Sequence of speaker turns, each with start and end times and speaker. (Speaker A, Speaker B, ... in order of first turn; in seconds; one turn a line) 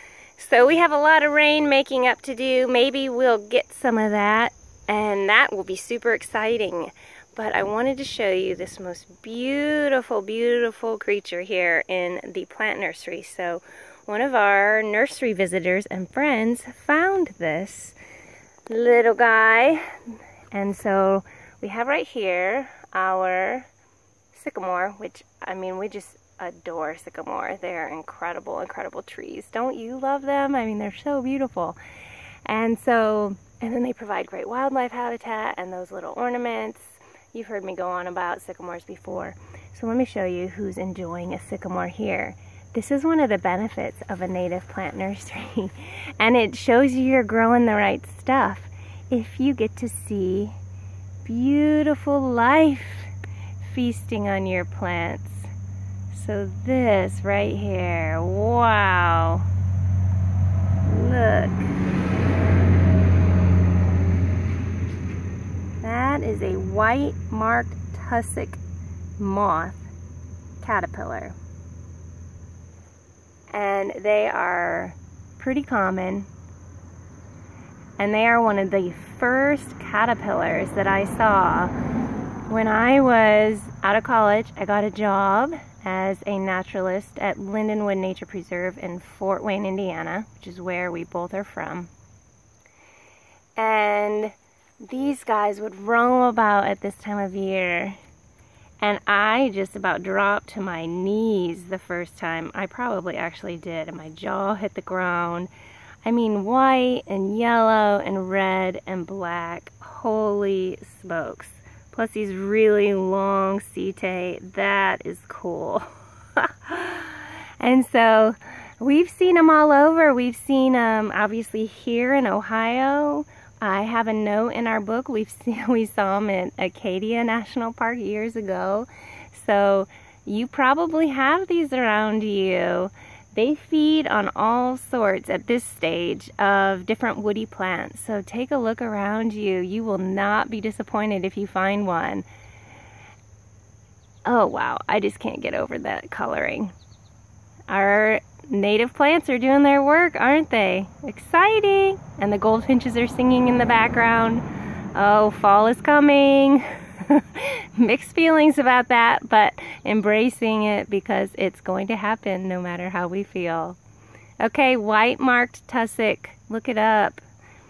Speaker A: 0.4-17.9
Speaker A: 18.7-19.8
Speaker A: 20.5-23.7
Speaker A: 24.3-31.8
Speaker A: 32.5-50.5
Speaker A: 51.2-55.5
Speaker A: 56.1-59.5
Speaker A: 60.8-61.7
Speaker A: 65.8-68.6
Speaker A: 69.2-69.9
Speaker A: 70.6-71.4
Speaker A: 73.5-76.3
Speaker A: 78.0-81.7
Speaker A: 82.5-91.9
Speaker A: 93.6-98.0
Speaker A: 98.8-105.5
Speaker A: 106.0-115.9
Speaker A: 116.4-142.2
Speaker A: 144.2-146.7
Speaker A: 147.7-163.8
Speaker A: 164.4-167.2